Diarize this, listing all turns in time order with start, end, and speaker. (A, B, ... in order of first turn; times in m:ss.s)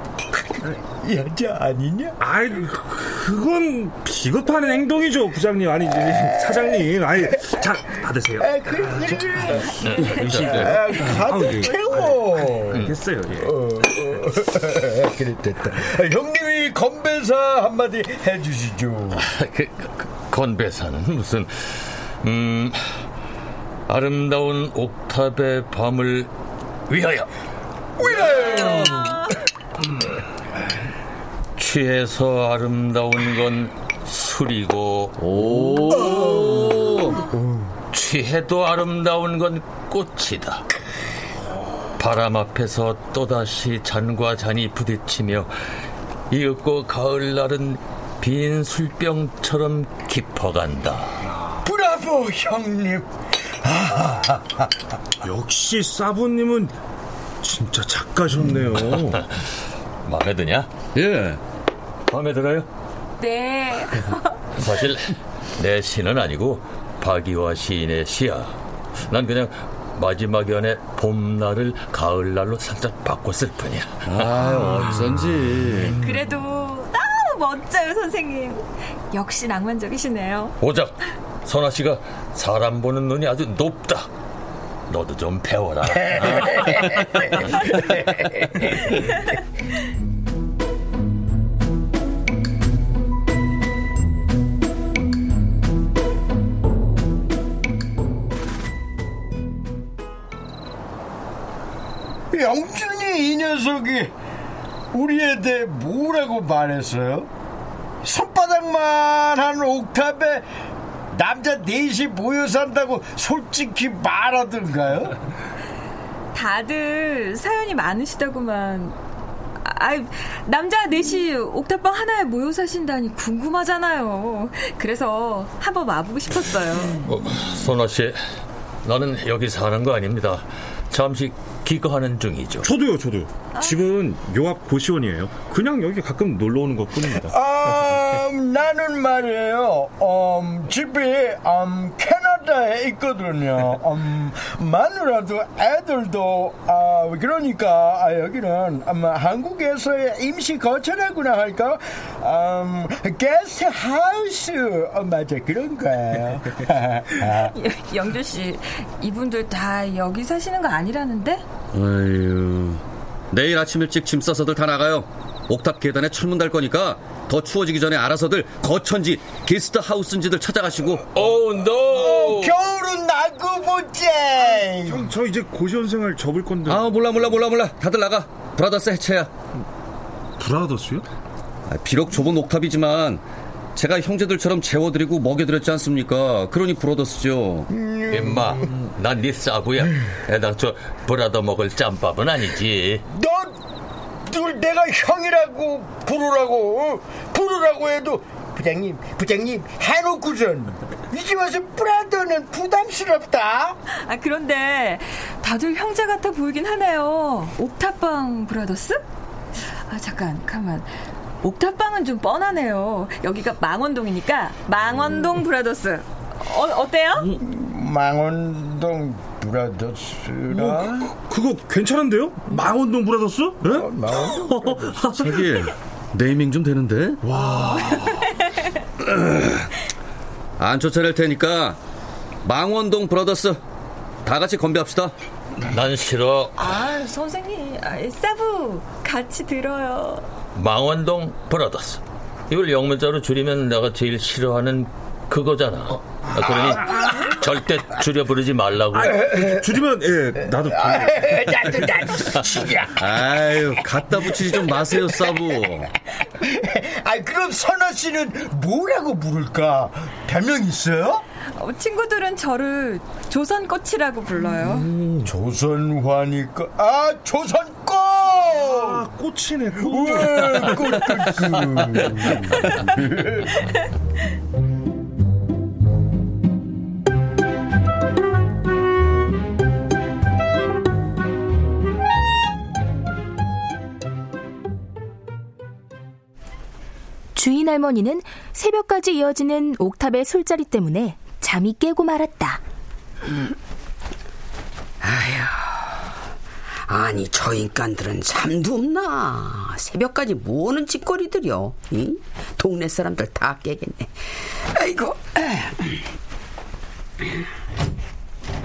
0:00.5-0:02.2 A
0:02.2-0:08.6 B
0:08.4-0:12.9 A
0:09.8-0:10.8 C
0:10.0-0:13.6 B
0:13.4-0:19.2 A
0:19.2-0:23.0 C
0:23.9-0:26.3 C
0:26.9-0:27.3 C
0:28.0-0:29.3 A
0:31.6-0:35.2 C
0:35.2-0:37.1 D
0:37.9-0:40.6 C
0:42.0-0:45.5 C
0:46.3-0:51.1 C
0:51.6-0:53.0 A
0:53.6-0:54.6 A
0:55.2-0:56.7 B
0:57.4-0:59.2 B
1:00.0-1:00.7 C
1:00.9-1:01.4 D
1:02.1-1:02.7 C
1:03.2-1:04.3 E
1:04.6-1:08.5 C
1:09.1-1:14.5 C
1:14.1-1:16.0 D
1:16.0-1:20.5 E
1:20.6-1:24.1 C
1:24.9-1:27.9 C
1:42.3-1:44.1 A
1:44.9-1:47.3 A
1:48.0-1:50.5 A
1:51.1-1:55.1 A
1:56.3-1:59.0 E
1:59.6-2:07.0 E
2:07.0-2:08.2 C
2:08.8-2:12.7 C
2:12.6-2:17.3 B
2:13.5-2:13.9 E
2:17.2-2:37.5 A
2:37.5-2:41.4 E
2:41.7-2:51.0 D
2:51.1-2:52.5 C
2:51.9-2:55.1 A
2:54.8-2:57.0 B
2:56.7-2:59.3 D
3:00.4-3:01.0 B
3:01.7-3:03.2 D
3:03.8-3:07.7 D
3:07.7-3:08.6 A
3:08.1-3:13.0 C
3:13.1-3:13.6 A
3:14.3-3:23.8 A
3:24.0-3:29.0 E
3:29.9-3:30.9 E
3:31.4-3:37.3 E
3:37.4-3:41.1 A
3:40.5-3:45.7 B
3:43.7-3:44.4 A
3:45.1-3:47.2 D
3:47.2-3:48.2 B
3:49.2-3:49.5 D
3:50.6-3:51.8 D
3:52.4-3:53.6 D
3:54.2-3:55.1 D
3:55.7-3:56.6 C
3:56.6-4:00.2 E
4:00.5-4:09.1 C
4:08.9-4:11.3 B
4:09.3-4:09.6 A
4:10.6-4:13.0 A
4:13.0-4:15.9 D
4:14.9-4:15.2 A
4:16.4-4:21.2 A
4:21.6-4:24.9 E
4:25.2-4:29.0 A
4:28.6-4:31.3 B
4:29.8-4:33.4 A
4:47.3-4:52.6 F
4:55.0-4:55.8 G
4:56.9-5:04.1 G
5:04.7-5:06.0 G